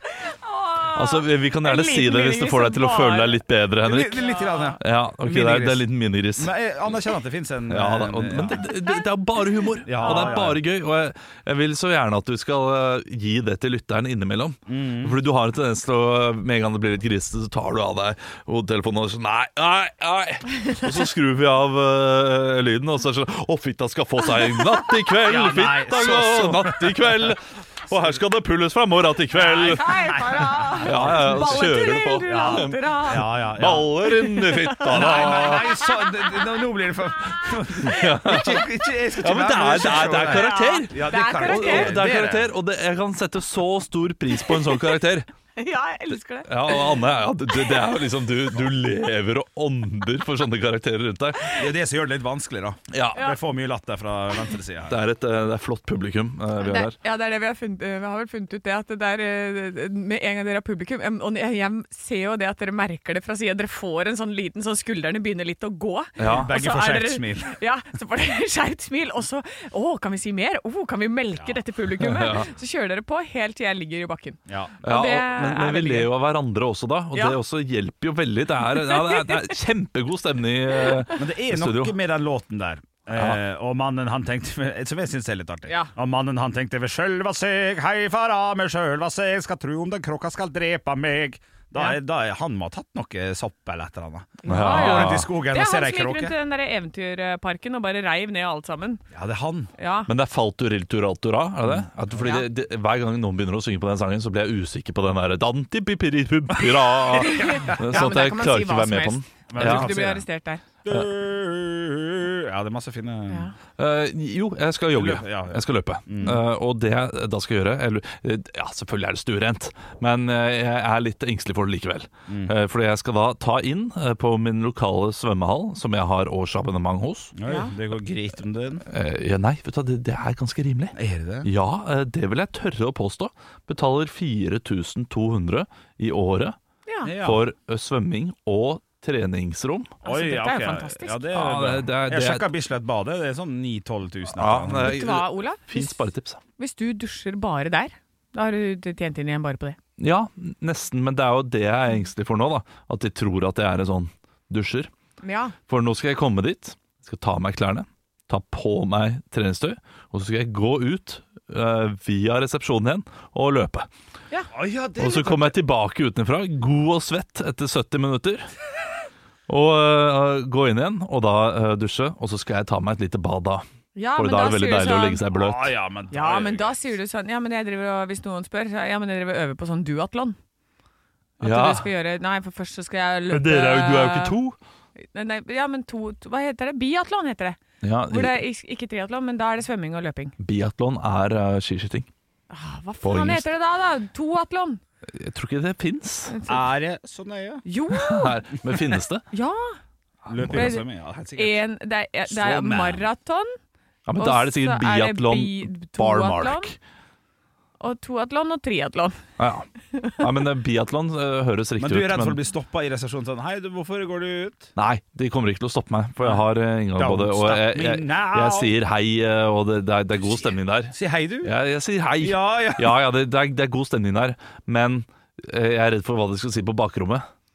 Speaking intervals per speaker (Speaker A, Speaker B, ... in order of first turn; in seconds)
Speaker A: 0.2-3.4, 4.2-4.7, 9.9-10.4, 29.3-35.8, 40.2-42.0, 44.4-45.0, 45.5-47.0, 56.6-76.1, 77.1-77.4, 78.8-79.5, 85.7-85.9, 94.4-99.0, 99.8-100.1, 102.2-102.5, 107.2-110.6, 113.3-113.5, 127.5-127.7, 136.8-137.1, 140.0-141.2, 144.8-146.0, 146.6-149.8, 155.2-155.5, 173.9-175.2, 176.1-180.3, 181.4-184.3, 185.1-190.3, 192.5-194.8, 196.3-196.7, 197.6-198.4, 199.3-199.8, 200.5-200.8, 201.3-203.5, 204.2-206.7, 207.8-209.2
Speaker B: 0.9-6.5, 7.7-30.1, 30.8-35.8, 37.8-38.6, 39.2-45.3, 46.4-51.6, 52.9-53.3, 54.9-57.0, 66.2-66.5, 72.0-72.5, 74.8-81.9, 83.1-83.4, 94.5-95.3, 100.1-109.9, 113.8-127.3, 128.8-136.6, 137.1-139.9, 141.3-142.5, 144.3-146.4, 150.0-154.9, 155.7-163.9, 165.0-168.5, 169.5-173.6, 174.2-175.7, 181.4-181.9, 183.3-184.6, 187.8-188.4, 190.4-192.1, 193.0-193.4, 195.1-196.3, 197.9-199.2, 200.3-200.8, 204.1-206.7, 209.4-209.7, 210.2-212.4, 214.8-227.3
Speaker C: 3.8-8.7, 9.8-10.6, 14.7-15.2, 25.2-27.4, 29.7-33.9, 34.9-42.5, 51.5-55.0, 66.2-67.5, 74.5-74.8, 81.2-96.3, 99.1-99.7, 107.4-107.8, 109.5-110.2, 110.8-113.5, 114.9-116.4, 127.3-128.8, 130.9-131.5, 137.0-137.4, 140.0-145.0, 164.5-165.6, 175.3-176.8, 196.5-197.6, 200.3-201.6, 202.3-203.0, 211.8-214.7, 216.9-218.7, 220.9-221.5, 222.2-223.0